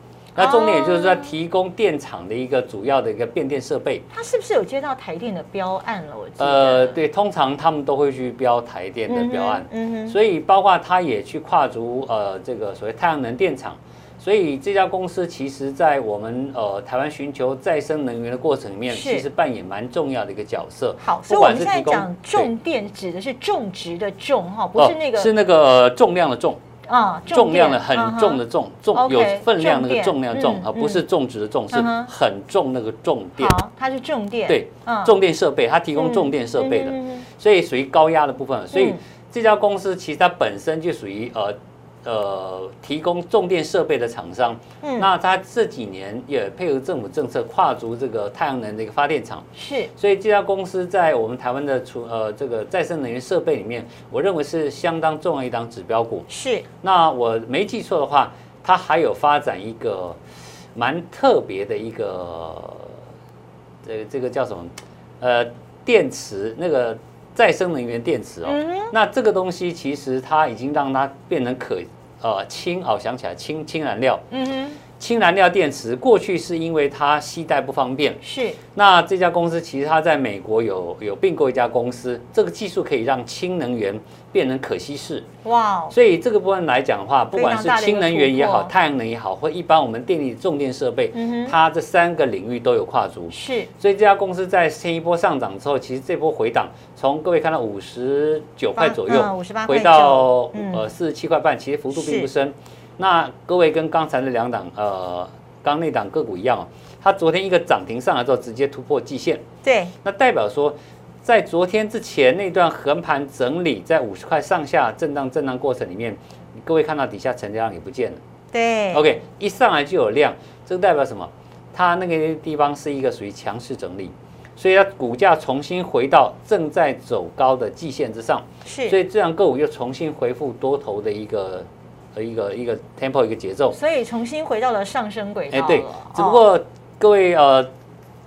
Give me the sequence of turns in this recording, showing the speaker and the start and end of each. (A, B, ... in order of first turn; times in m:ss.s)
0:00.4-0:01.3 A
0:00.4-0:04.0 B
0:04.1-0:07.0 A
0:06.4-0:22.5 B
0:09.1-0:10.2 A
0:18.9-0:19.3 A
0:21.0-0:25.3 A
0:24.8-0:26.6 B
0:26.9-0:28.4 A
0:27.3-0:33.6 B
0:28.9-0:31.0 A
0:31.7-0:32.1 A
0:33.4-0:35.2 A
0:34.5-0:56.3 B
0:36.0-0:37.3 A
0:38.7-0:39.0 A
0:44.8-0:45.1 A
0:49.6-0:49.9 A
0:56.3-0:56.7 A
0:56.8-1:00.2 B
1:00.8-1:03.0 B
1:03.8-1:14.2 B
1:08.4-1:08.9 A
1:14.3-1:14.8 A
1:15.0-1:18.2 B
1:18.2-1:18.6 A
1:18.8-1:25.3 B
1:25.4-1:26.0 A
1:25.9-1:49.4 B
1:27.3-1:28.7 A
1:31.1-1:31.6 A
1:33.3-1:33.7 A
1:38.8-1:40.9 A
1:41.9-1:42.3 A
1:49.6-1:49.9 A
1:50.0-1:58.2 B
1:58.5-1:59.1 A
1:58.9-2:13.8 B
2:08.6-2:09.0 A
2:13.7-2:16.4 A
2:15.5-2:17.7 B